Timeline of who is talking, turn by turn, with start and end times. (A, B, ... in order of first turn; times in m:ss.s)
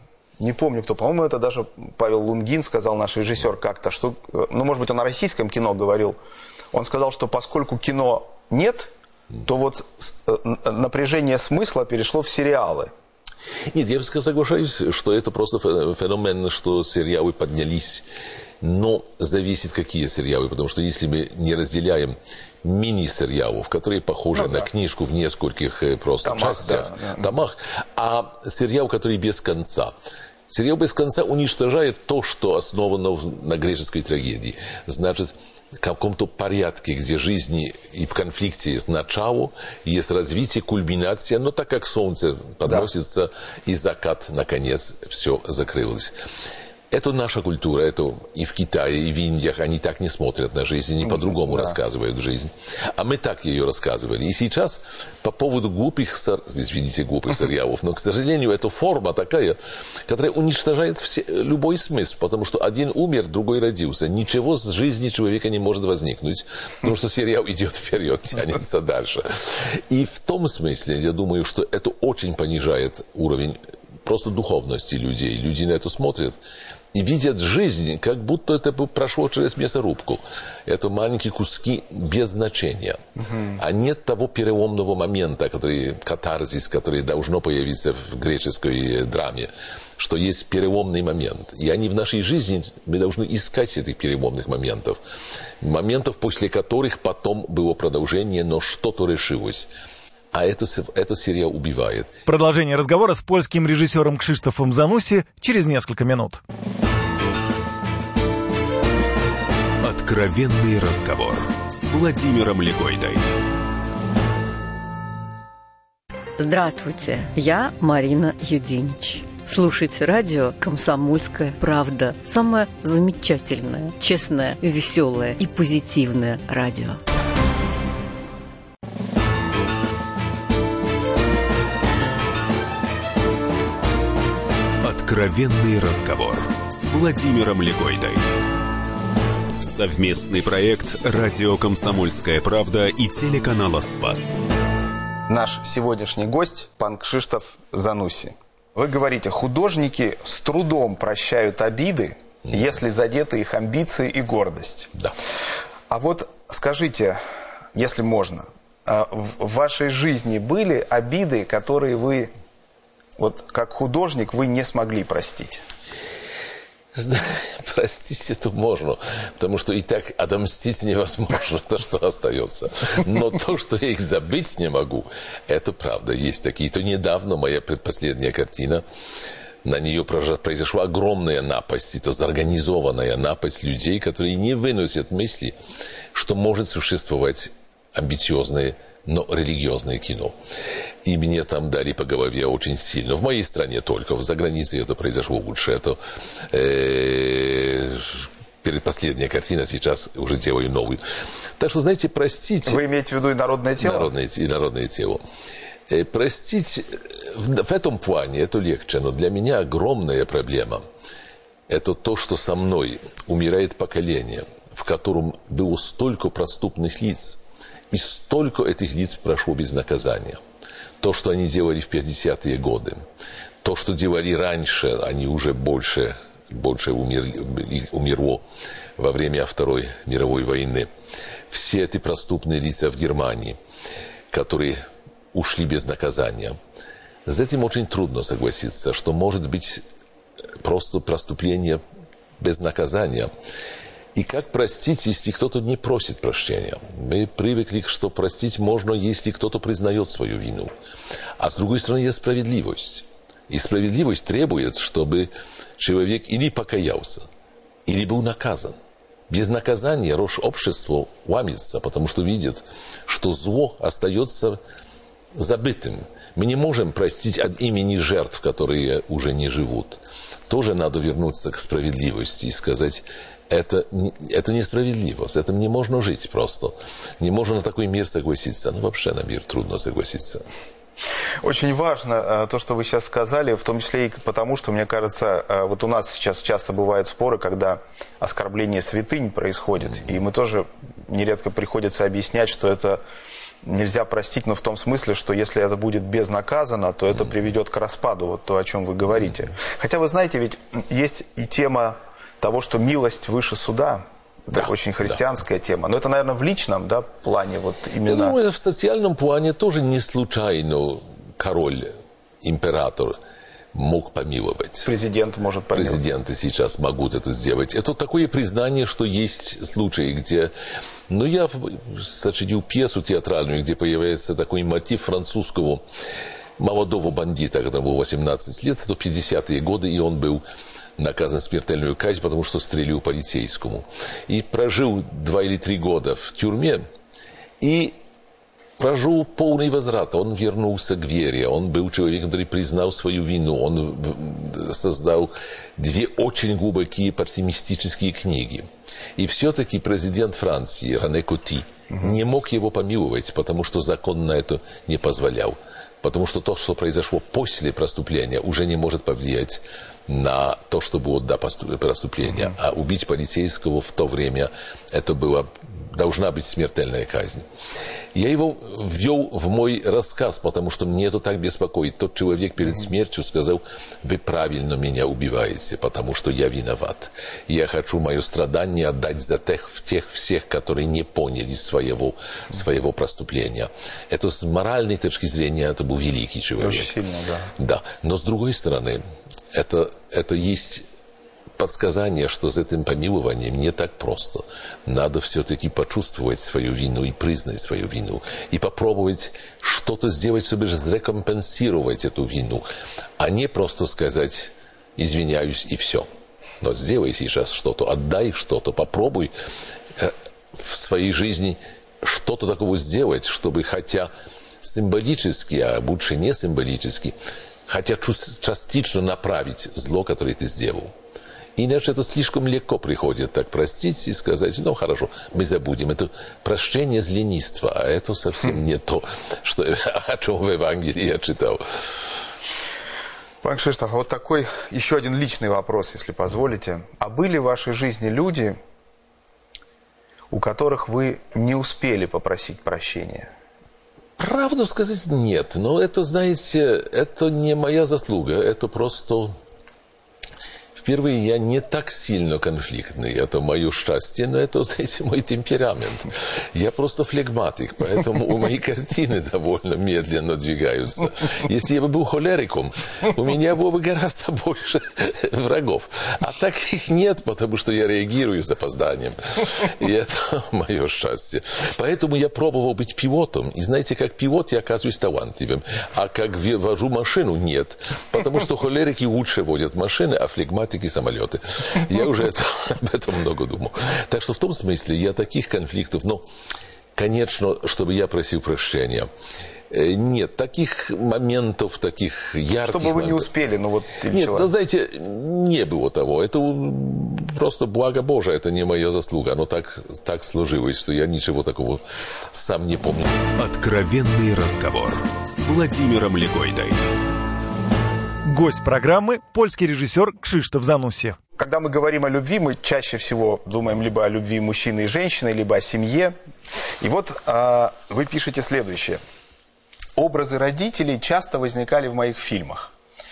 0:00.4-0:06.2 A
0:06.7-0:08.9 A
0:09.4-0:12.9 A
0:13.7-0:18.0 B
0:18.6-0:29.9 B
0:26.2-0:27.3 A
0:30.5-0:46.1 B
0:46.9-1:16.4 B
0:51.2-0:51.7 A
1:16.9-1:23.0 B
1:23.3-1:23.6 A
1:23.5-1:35.0 B
1:35.6-1:39.7 B
1:40.3-1:42.1 B
1:42.2-1:46.4 C
1:49.8-1:53.3 D
1:56.4-2:07.0 E
2:14.8-2:18.3 D
2:19.6-2:24.4 D
2:25.3-2:34.9 A
2:35.9-2:37.2 A
2:37.7-2:42.3 A
2:43.2-2:45.6 A
2:46.9-2:58.8 B
2:59.6-3:05.6 B
3:06.1-3:10.4 B
3:11.0-3:16.0 B
3:16.5-3:21.0 B
3:21.6-3:22.8 B
3:22.6-3:24.1 A
3:23.8-3:25.2 B
3:25.9-3:30.8 B
3:31.7-3:40.4 B
3:41.0-3:43.0 B
3:43.6-3:48.4 B
3:49.0-3:50.9 B
3:51.5-3:53.6 B
3:54.3-3:56.6 B
3:57.2-3:59.8 B
4:00.6-4:01.8 B
4:02.4-4:03.3 B
4:04.1-4:10.7 B
4:11.4-4:17.2 B
4:17.8-4:18.8 B
4:19.3-4:24.6 B
4:25.3-4:40.4 B
4:41.4-4:53.0 A
4:53.6-5:08.4 A
5:08.0-5:13.2 B
5:13.7-5:14.9 B
5:14.8-5:16.0 A
5:15.7-5:20.5 B
5:21.1-5:25.8 B
5:26.6-5:30.4 B
5:31.0-5:36.8 B
5:37.6-5:38.0 B
5:38.8-6:07.4 B
6:08.1-6:26.9 B
6:26.6-6:27.5 A
6:27.6-6:30.8 B
6:31.6-6:42.6 B
6:43.2-6:46.1 B
6:46.6-6:49.3 B
6:50.0-6:54.1 B
6:54.6-6:57.2 B
6:57.7-7:00.9 B
7:01.6-7:11.6 B
7:13.4-7:18.6 A
7:20.3-7:23.3 A
7:24.2-7:29.4 B
7:30.8-8:06.2 B
8:07.0-8:09.1 B
8:09.7-8:13.3 B
8:12.6-8:14.5 A
8:14.1-8:23.3 B
8:23.4-8:26.8 D
8:28.2-8:31.2 C
8:31.4-8:36.1 A
8:36.8-8:39.0 A
8:40.0-8:42.7 A